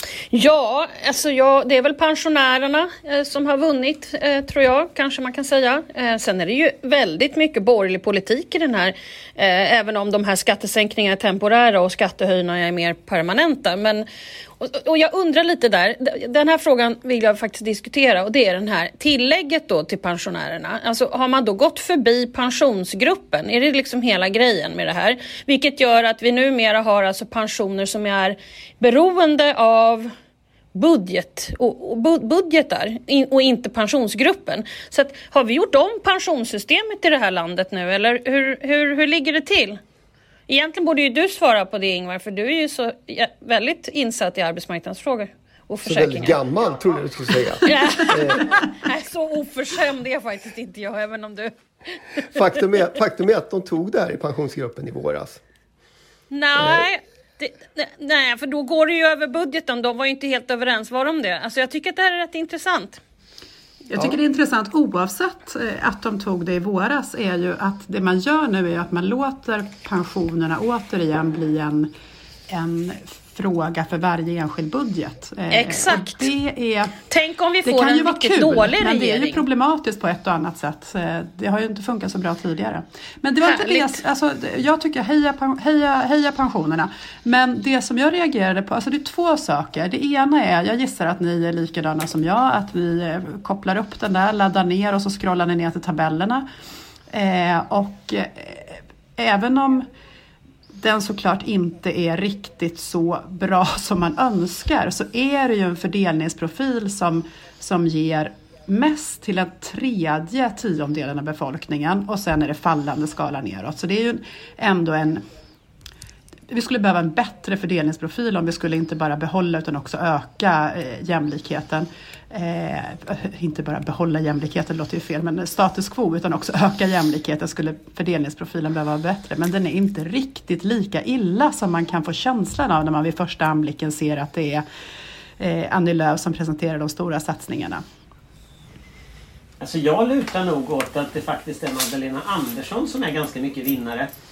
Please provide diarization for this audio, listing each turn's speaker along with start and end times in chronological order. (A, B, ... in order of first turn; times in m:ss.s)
0:00.3-0:14.0 A
0:14.6-0:30.1 A
0:30.7-0:39.8 A
0:40.5-0:46.4 A
0:45.8-0:48.4 B
0:47.6-0:52.4 A
0:52.3-0:55.4 B
0:56.3-1:03.0 A
0:56.6-0:56.8 B
1:03.9-1:11.9 C
1:12.5-1:16.9 C
1:15.5-1:16.3 A
1:17.1-1:19.4 A
1:17.6-1:36.5 C
1:23.4-1:24.0 A
1:37.1-1:39.9 C
1:40.8-1:55.2 C
1:56.5-2:14.6 C
2:15.4-2:17.8 C
2:19.6-2:24.2 D